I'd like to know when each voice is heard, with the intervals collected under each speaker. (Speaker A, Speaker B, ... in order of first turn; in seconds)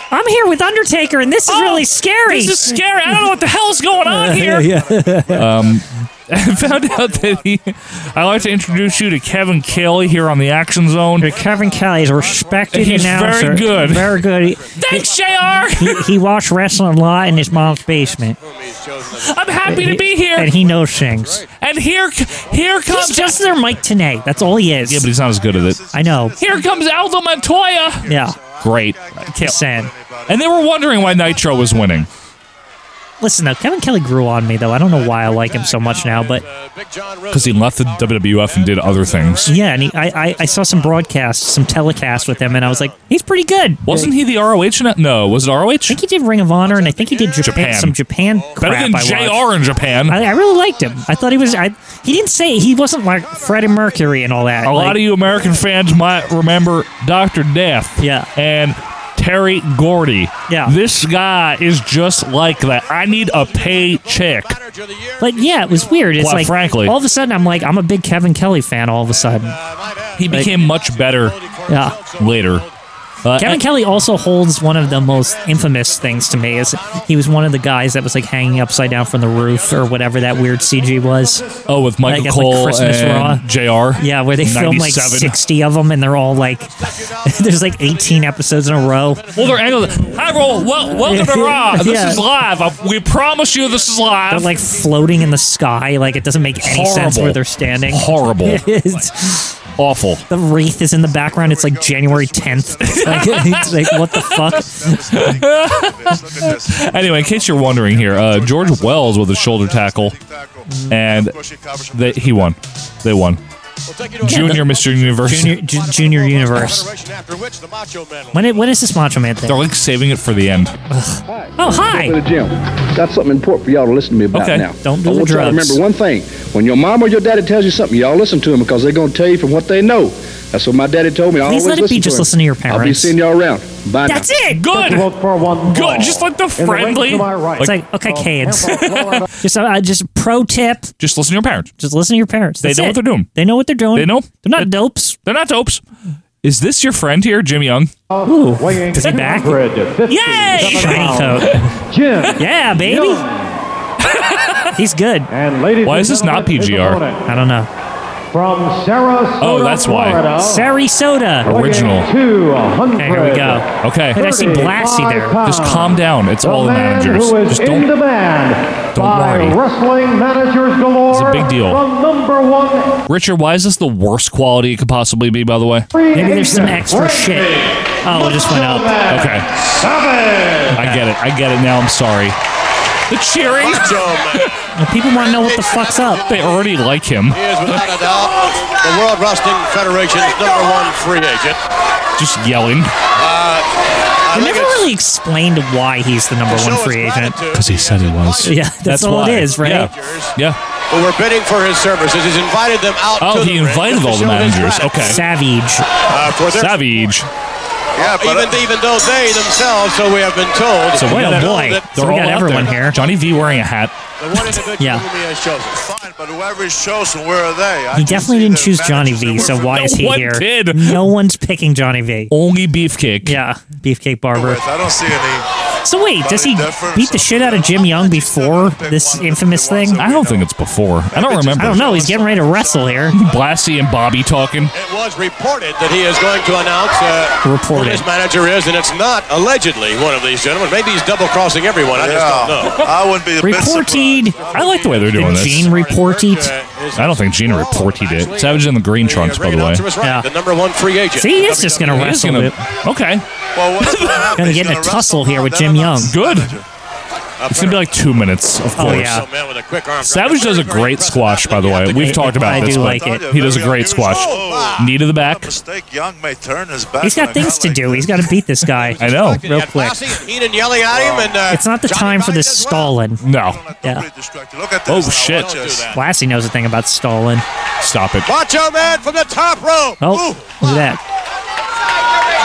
Speaker A: 0.1-3.2, 4.0-5.6, 11.2-15.1, 15.7-18.4, 19.7-21.4, 22.9-25.1, 25.9-26.4, 28.0-28.4, 29.4-29.9, 33.2-36.4, 39.5-44.1, 45.9-49.5, 50.1-55.0, 58.0-58.3, 60.5-60.7, 65.2-69.6, 71.7-72.0, 73.4-81.4, 82.0-83.4, 84.0-86.7, 87.2-89.4, 91.0-92.2, 94.3-99.6, 100.3-105.0, 110.7-110.9, 114.2-114.6, 115.2-116.9, 118.3-119.6, 120.9-122.2, 124.8-125.8, 131.4-133.1, 134.1-134.6, 137.6-138.9, 139.4-140.9, 141.8-145.2, 148.2-149.6, 150.1-151.6, 152.4-153.2, 154.7-155.3, 157.2-157.7, 160.3-161.5, 162.9-165.4, 176.1-178.9, 180.7-181.0, 184.8-186.2, 194.3-197.4, 198.4-199.9, 205.0-205.8, 211.1-212.9, 214.8-215.0, 217.9-222.3, 223.2-224.6, 225.8-230.0, 231.6-233.2, 237.4-238.0, 243.4-244.4, 245.1-246.5, 251.2-252.5, 254.3-256.1, 258.8-259.2, 262.0-263.3, 267.0-270.1, 271.5-273.2, 275.9-277.4, 280.0-281.0
Speaker B: 0.5-12.9, 17.3-17.7, 23.4-32.1, 100.9-112.6, 207.9-208.7, 215.7-220.0, 224.3-225.5, 226.2-230.6, 231.1-233.3, 241.9-245.1, 253.5-256.6, 262.5-268.3, 270.9-271.3, 273.3-275.9
Speaker C: 1.5-4.7, 5.3-11.3, 12.7-14.2, 14.8-16.1, 19.1-20.5, 21.6-23.4, 24.8-25.8, 26.4-28.0, 28.6-29.6, 30.3-32.1, 37.3-39.5, 43.9-46.0, 47.4-48.0, 48.6-50.2, 54.6-64.6, 66.2-67.0, 70.2-71.3, 72.2-72.6, 73.2-73.6, 81.7-85.3, 89.3-94.5, 96.6-98.7, 99.8-100.2, 102.8-104.6, 105.1-110.2, 110.9-111.4, 111.9-113.4, 114.2-115.6, 119.5-120.7, 124.3-124.7, 134.5-135.1, 135.6-137.7, 138.7-139.2, 141.0-141.7, 142.6-143.3, 143.9-145.8, 146.4-147.9, 150.1-151.7, 154.0-154.7, 155.8-157.0, 159.4-160.3, 161.4-162.1, 163.8-164.2, 165.4-167.9, 168.9-169.6, 171.1-171.8, 173.1-175.9, 179.1-179.5, 180.7-182.4, 183.1-184.5, 186.3-187.9, 192.2-192.9, 197.5-200.6, 203.2-205.2, 206.5-207.3, 210.9-213.9, 219.4-221.1, 222.3-223.4, 229.9-232.1, 233.1-234.7, 244.5-245.7, 246.9-249.8, 251.8-253.2, 253.8-254.3, 256.0-256.6, 257.5-259.2, 260.0-265.6, 269.0-269.4, 273.2-273.6, 274.9-275.5, 277.8-278.3
Speaker D: 14.6-15.7, 18.3-21.5, 22.4-22.6, 35.0-41.1, 42.0-43.0, 46.6-48.9, 49.6-51.7, 62.8-67.6, 69.2-72.7, 74.8-77.0, 79.3-80.7, 86.7-91.0, 113.9-118.7, 183.5-184.5, 185.1-186.8, 187.3-191.6, 193.2-193.7, 194.2-194.9, 196.5-198.6, 199.5-200.3, 200.9-205.2, 206.1-207.2, 208.0-211.9, 212.4-213.1, 214.2-215.8, 234.7-242.8, 244.2-252.1, 257.4-257.9, 258.8-262.6, 264.0-264.9, 268.8-272.9, 275.2-276.0, 278.2-280.6
Speaker E: 81.2-81.6, 134.7-139.3, 148.1-153.5, 155.3-157.2, 158.3-160.7, 161.4-173.0, 175.9-180.7
Speaker F: 121.3-134.3